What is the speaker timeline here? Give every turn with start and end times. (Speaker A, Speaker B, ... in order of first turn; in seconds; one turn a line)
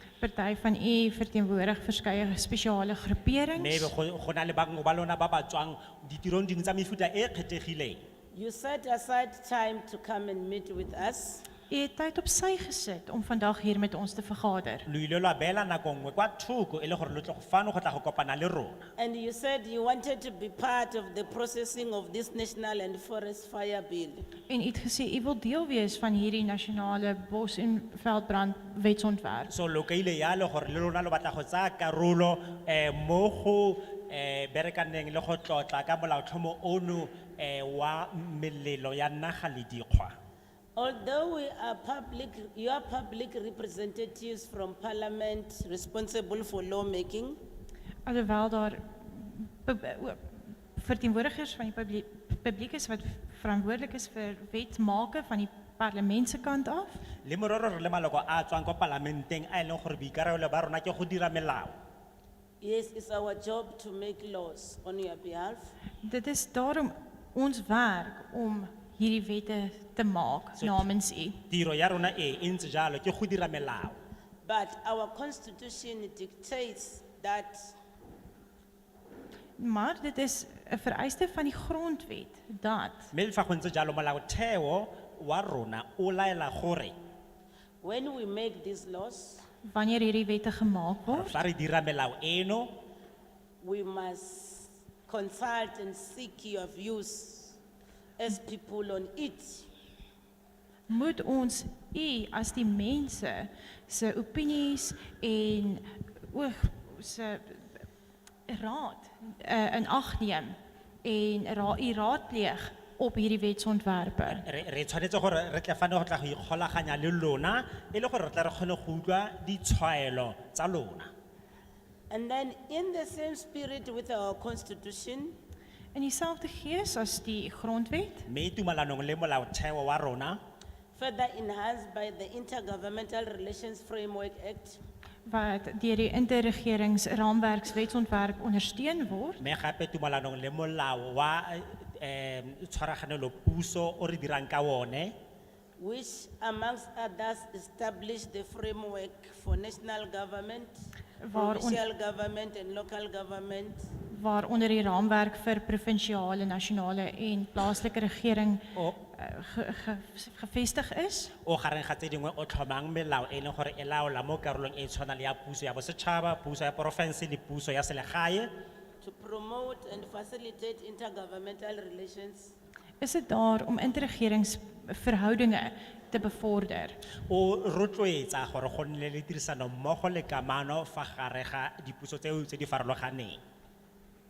Speaker A: 0.2-3.9
Speaker B: 3.6-8.0
Speaker C: 8.3-11.5
Speaker A: 11.7-14.9
Speaker B: 14.9-18.9
Speaker C: 19.0-24.2
Speaker A: 24.5-29.5
Speaker B: 29.5-40.1
Speaker C: 40.8-47.4
Speaker A: 48.1-56.9
Speaker B: 57.2-61.7
Speaker C: 62.6-65.7
Speaker A: 66.0-71.4
Speaker B: 70.6-70.8
Speaker B: 71.5-74.0
Speaker C: 74.4-77.8
Speaker A: 79.6-83.1
Speaker B: 83.1-87.0
Speaker C: 87.8-89.5
Speaker A: 89.7-91.4
Speaker B: 91.1-92.8
Speaker C: 93.6-97.6
Speaker C: 98.2-99.7
Speaker A: 100.9-107.8
Speaker A: 108.5-114.4
Speaker B: 114.3-121.1
Speaker C: 122.1-125.3
Speaker A: 126.0-128.3
Speaker B: 128.3-130.4
Speaker C: 130.9-134.8
Speaker A: 135.3-139.4
Speaker B: 139.4-145.2
Speaker C: 145.8-150.8
Speaker A: 151.2-151.8
Speaker C: 151.3-153.8
Speaker A: 154.1-161.3
Speaker B: 158.8-159.0
Speaker B: 161.4-168.5
Speaker C: 169.0-172.6
Speaker A: 173.0-177.0
Speaker B: 177.3-183.4